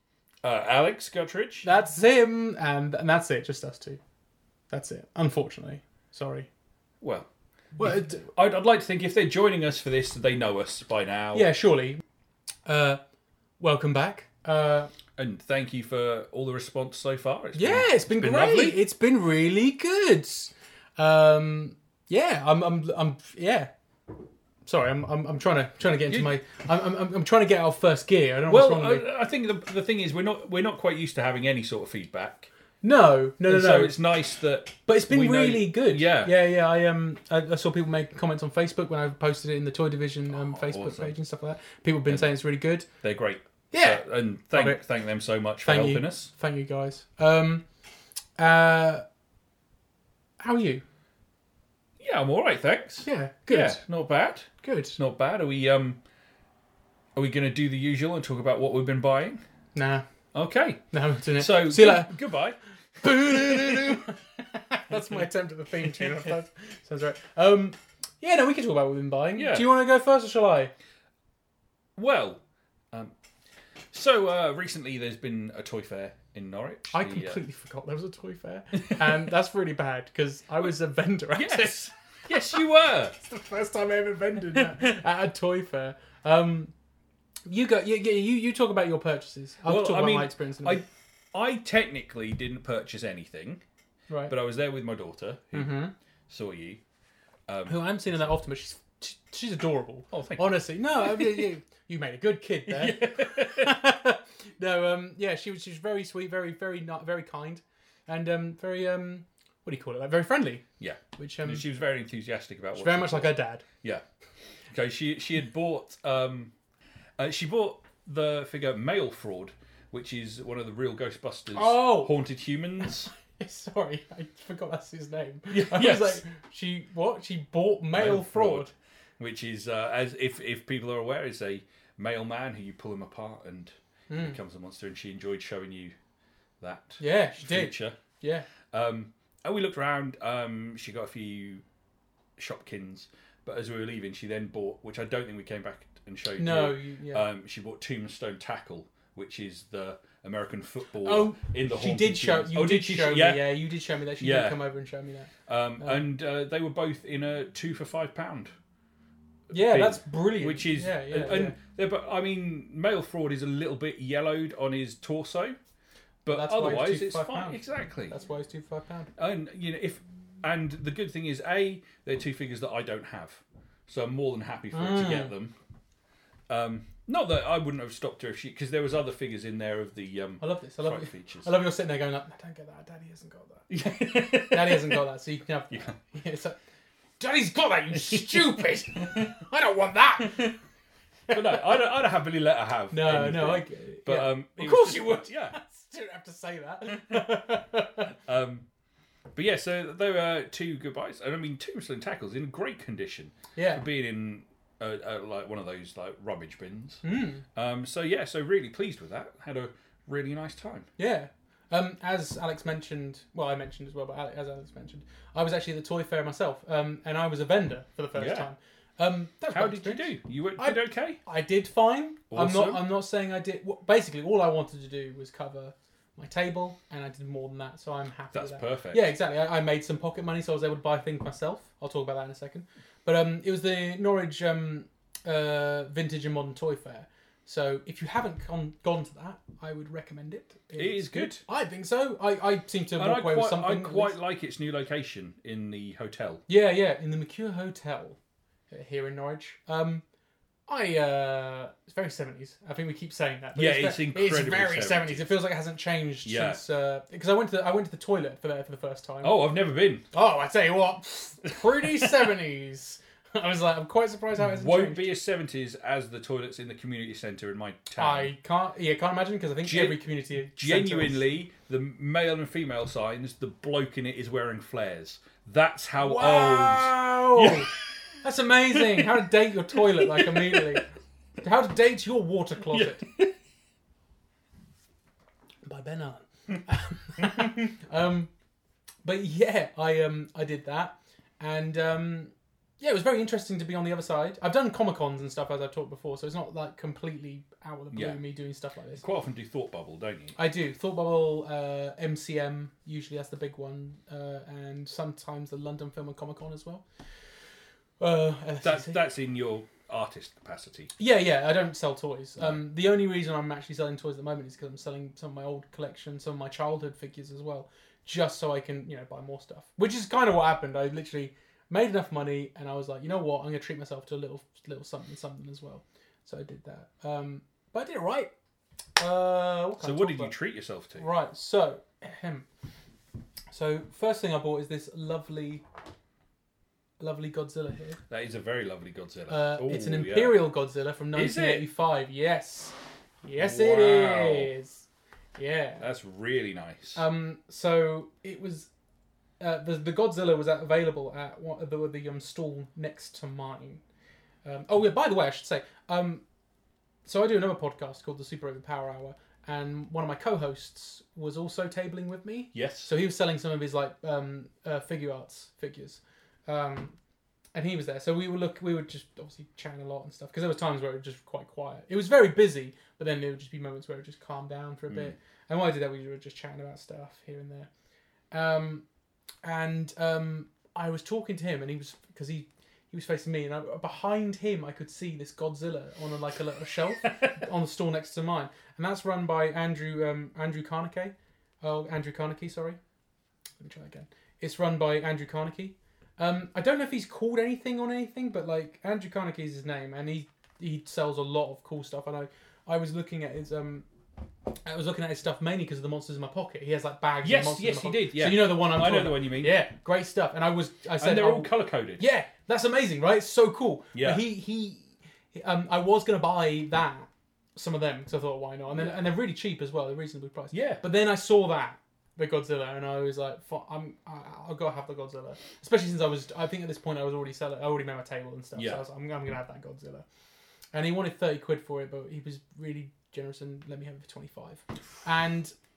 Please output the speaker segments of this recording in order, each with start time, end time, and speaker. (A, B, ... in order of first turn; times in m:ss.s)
0:00.4-0:01.7 A
0:01.6-0:04.0 B
0:04.7-0:06.5 B
0:07.0-0:07.3 A
0:07.8-0:08.3 B
0:07.8-0:11.5 A
0:11.3-0:12.0 B
0:12.7-0:13.0 B
0:13.6-0:14.9 B
0:15.2-0:18.8 A
0:17.6-0:23.7 B
0:24.7-0:29.0 B
0:28.5-0:32.5 A
0:32.8-0:34.0 B
0:33.5-0:36.3 A
0:34.8-0:42.9 B
0:40.3-0:41.1 A
0:43.0-0:46.3 A
0:43.7-0:44.8 B
0:45.6-0:47.6 B
0:48.4-0:49.0 B
0:50.4-0:50.8 B
0:52.0-0:56.0 A
0:53.0-0:53.8 B
0:54.6-0:55.0 B
0:57.2-0:59.4 A
0:59.7-1:00.0 B
1:00.3-1:00.8 A
1:00.9-1:02.1 B
1:01.4-1:04.1 A
1:03.0-1:10.7 B
1:09.4-1:09.7 A
1:12.0-1:13.2 A
1:13.9-1:17.4 A
1:16.9-1:21.9 B
1:21.3-1:23.2 A
1:23.2-1:26.7 B
1:24.5-1:25.0 A
1:27.5-1:30.8 B
1:29.6-1:33.6 A
1:34.1-1:34.3 B
1:34.3-1:35.7 A
1:35.5-1:35.9 B
1:36.3-1:36.8 A
1:37.5-1:37.8 A
1:37.7-1:50.6 B
1:40.1-1:40.5 A
1:41.0-1:41.4 A
1:42.7-1:43.8 A
1:50.8-1:54.0 A
1:51.2-1:51.6 B
1:52.8-1:53.6 B
1:54.7-1:56.5 A
1:57.2-2:03.1 A
2:01.5-2:02.2 B
2:03.3-2:08.7 B
2:05.5-2:06.2 A
2:07.9-2:16.0 A
2:14.1-2:14.4 B
2:16.6-2:18.0 A
2:17.0-2:18.5 B
2:18.7-2:21.6 A
2:22.4-2:33.6 A
2:26.4-2:27.2 B
2:31.0-2:36.1 B
2:34.2-2:34.6 A
2:35.4-2:38.5 A
2:39.5-2:45.6 A
2:39.5-2:41.6 B
2:46.2-2:48.1 A
2:46.3-2:49.1 B
2:49.2-2:55.5 A
2:54.7-2:55.3 B
2:56.5-3:01.5 A
3:00.4-3:06.6 B
3:03.7-3:05.0 A
3:07.2-3:10.6 B
3:11.3-3:11.8 B
3:11.3-3:15.6 A
3:12.9-3:18.1 B
3:18.2-3:18.7 A
3:19.3-3:30.9 A
3:23.6-3:23.8 B
3:27.0-3:27.4 B
3:31.0-4:04.1 B
3:38.1-3:38.5 A
3:39.5-3:41.2 A
3:42.3-3:42.9 A
3:48.3-3:49.1 A
4:00.8-4:01.4 A
4:03.0-4:06.4 A
4:06.5-4:08.2 B
4:08.7-4:10.0 B
4:10.7-4:19.4 B
4:13.6-4:15.3 A
4:16.2-4:16.6 A
4:19.2-4:20.0 A
4:20.1-4:25.1 B
4:24.4-4:28.3 A
4:28.0-4:31.2 B
4:29.6-4:30.0 A
4:30.6-4:37.8 A
4:36.0-4:40.9 B
4:38.7-4:39.1 A
4:39.8-4:40.8 A
4:41.4-4:43.0 B
4:42.7-4:43.3 A
4:45.6-4:48.3 B
4:49.0-4:59.0 B
4:57.9-4:58.2 A
4:59.0-5:00.4 A
5:00.4-5:06.8 B
5:08.0-5:09.0 B
5:08.6-5:10.9 A
5:11.0-5:28.3 B
5:29.0-5:30.4 B
5:29.8-5:31.1 A
5:31.0-5:32.5 B
5:33.5-5:35.6 B
5:37.0-5:38.0 B
5:38.1-5:40.4 A
5:39.3-5:45.9 B
5:41.1-5:41.7 A
5:43.4-5:44.5 A
5:45.8-5:47.0 A
5:47.0-5:48.7 B
5:49.4-5:53.8 B
5:54.4-5:56.2 B
5:57.0-6:07.0 B
6:02.5-6:02.9 A
6:07.5-6:17.7 B
6:14.9-6:15.1 A
6:18.3-6:18.8 B
6:19.4-6:32.8 B
6:33.6-6:43.8 B
6:44.6-7:10.0 B
6:47.2-6:49.6 A
6:51.0-6:52.0 A
6:53.9-6:54.2 A
6:58.7-6:59.1 A
7:00.5-7:00.8 A
7:08.6-7:08.8 A
7:10.7-7:15.5 B